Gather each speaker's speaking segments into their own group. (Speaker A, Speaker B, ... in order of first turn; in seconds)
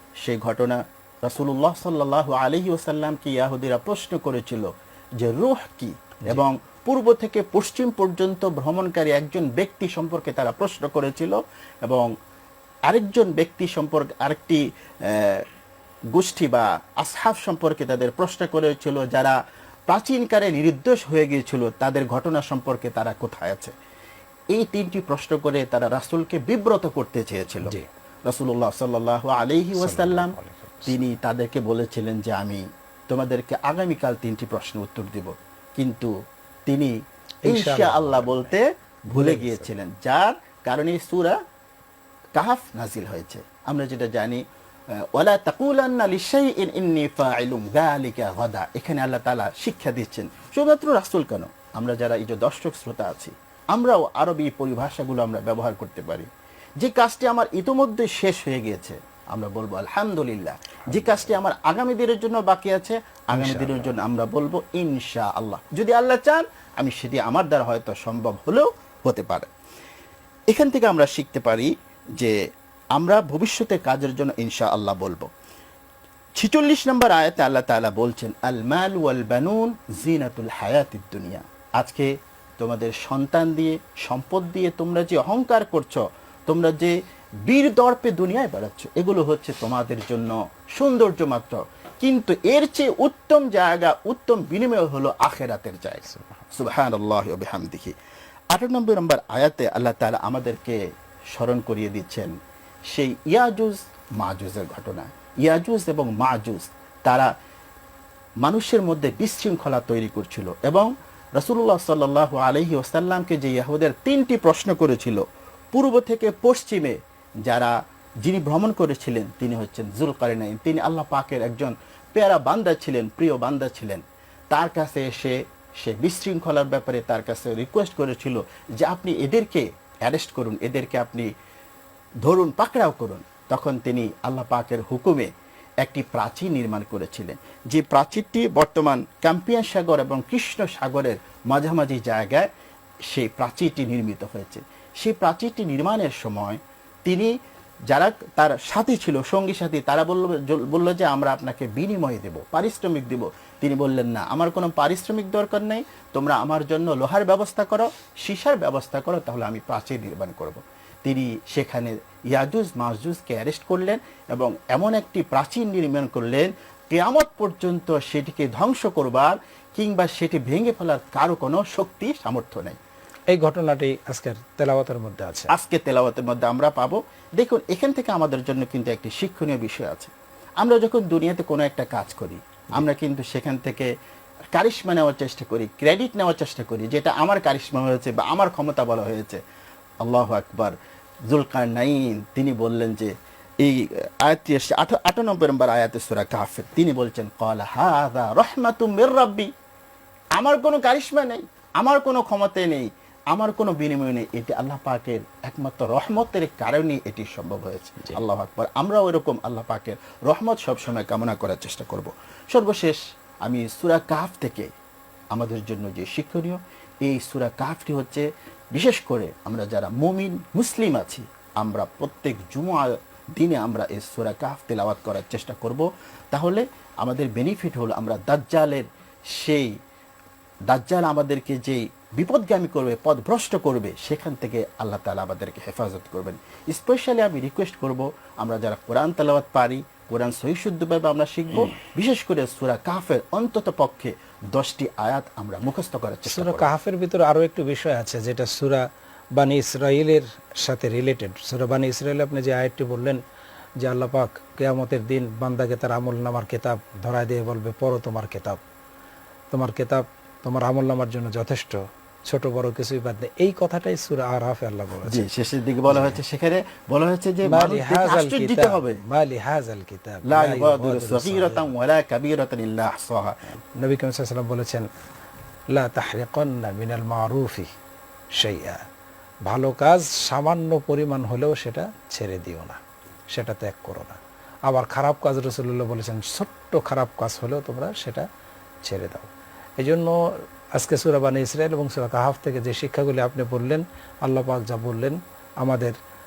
Speaker A: 0.2-4.7, 5.2-12.1, 12.9-15.4, 16.1-19.4, 19.9-23.7, 24.5-27.8, 28.3-30.3, 30.9-36.1, 36.7-37.0, 37.5-41.4, 42.4-44.4, 45.1-56.3, 56.8-69.5, 70.5-72.4, 73.0-75.3, 76.4-86.9, 87.5-98.0, 98.5-100.8, 101.3-102.3, 102.9-107.3, 108.5-131.3, 132.2-135.3, 135.8-142.5, 143.1-147.3, 147.9-172.8, 175.5-183.9, 184.6-189.4, 190.1-190.8, 191.3-193.1, 193.6-199.5, 200.4-214.7, 215.3-229.7, 230.7-246.7, 265.1-269.0, 270.3-273.4
Speaker B: 29.8-30.9, 37.5-38.6, 39.1-39.7, 60.9-61.4, 63.3-64.0, 96.1-96.5, 173.3-175.5, 246.3-253.2, 253.8-258.6, 259.5-265.2, 265.9-266.2, 267.5-271.7, 273.8-274.9, 275.7-277.7, 278.3-278.8, 279.5-282.8, 283.3-288.3, 288.8-296.0